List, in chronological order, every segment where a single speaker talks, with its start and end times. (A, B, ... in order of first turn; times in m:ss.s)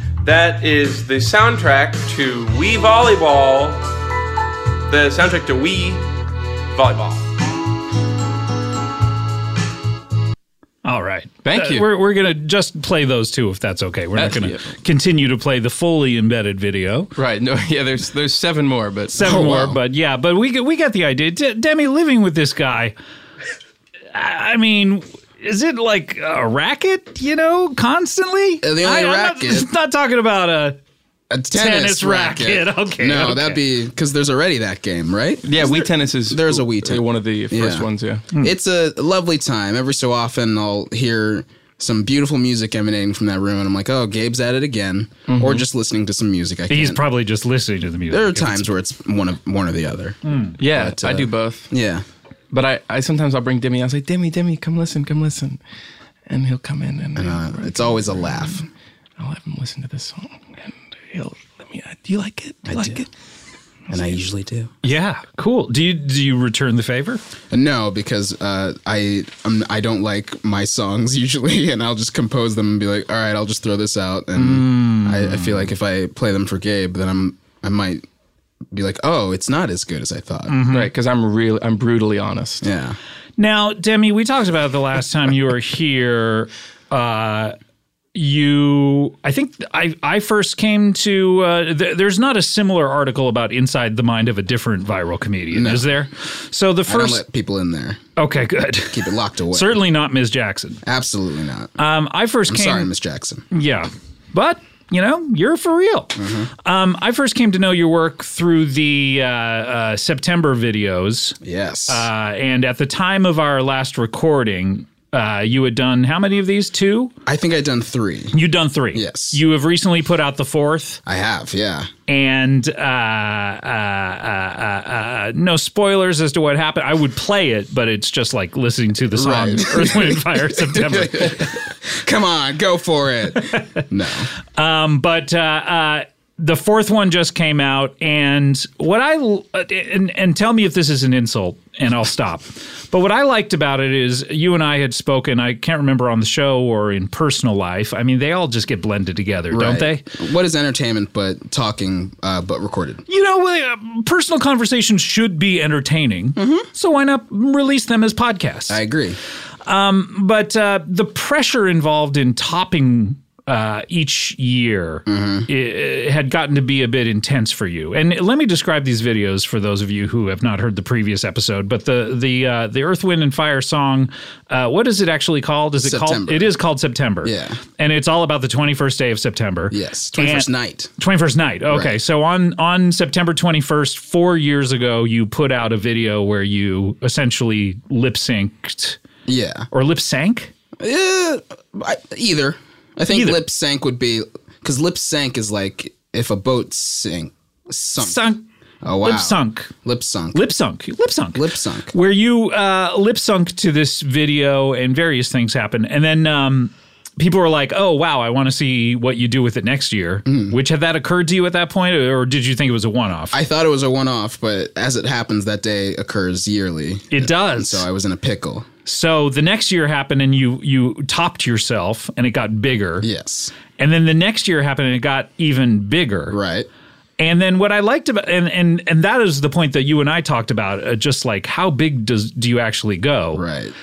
0:00.3-0:03.8 A
0:05.0-0:05.8 A
0:06.8-0:07.2 A
0:10.8-0:17.1 B
0:11.4-0:11.9 C
0:14.2-0:14.7 C
0:17.2-0:19.2 C
0:19.1-0:19.8 D
0:19.2-0:22.9 B
0:24.1-0:30.8 B
0:28.6-0:29.7 D
0:31.3-0:37.9 D
0:31.5-0:33.6 B
0:35.4-0:38.2 C
0:38.4-0:47.0 D
0:45.3-0:45.6 C
0:46.7-0:48.7 B
0:48.1-0:52.0 D
0:50.2-0:50.6 B
0:50.6-0:51.7 C
0:52.5-0:55.6 C
0:56.3-0:58.6 C
0:57.2-0:58.6 D
0:59.2-1:03.0 C
1:02.7-1:03.0 D
1:03.9-1:04.7 D
1:04.8-1:07.2 B
1:07.5-1:18.0 D
1:14.4-1:15.7 B
1:18.7-1:20.5 D
1:20.5-1:20.9 B
1:20.7-1:22.6 C
1:22.6-1:23.0 D
1:23.4-1:27.6 B
1:28.1-1:37.2 B
1:35.5-1:35.9 D
1:36.9-1:38.0 D
1:38.2-1:40.8 B
1:38.9-1:39.8 D
1:40.8-1:41.7 D
1:41.8-1:42.9 B
1:42.5-1:43.4 D
1:43.5-1:51.4 B
1:46.2-1:46.5 D
1:51.4-1:52.1 D
1:51.9-1:57.1 B
1:57.2-1:58.3 D
1:58.3-2:01.0 B
1:58.9-1:59.4 D
2:01.0-2:01.9 D
2:02.1-2:11.5 B
2:09.1-2:14.3 D
2:14.5-2:30.0 B
2:29.5-2:33.0 D
2:33.1-2:38.8 B
2:36.4-2:36.7 D
2:38.7-2:39.2 D
2:39.6-3:09.0 B
2:45.0-2:45.5 D
2:55.8-2:56.6 D
2:57.2-2:57.6 D
2:59.7-3:00.9 D
3:01.7-3:02.0 D
3:09.3-3:09.7 D
3:09.7-3:10.5 B
3:10.8-3:18.2 D
3:13.1-3:13.4 B
3:18.0-3:18.4 B
3:18.8-3:20.4 D
3:19.0-3:19.7 B
3:20.3-3:33.4 B
3:21.3-3:21.9 D
3:30.2-3:30.6 D
3:33.3-3:38.7 D
3:37.1-3:37.8 B
3:38.8-3:43.0 B
3:43.0-3:43.5 D
3:43.8-3:46.4 B
3:46.3-3:46.7 D
3:47.2-3:53.4 B
3:53.3-3:53.7 D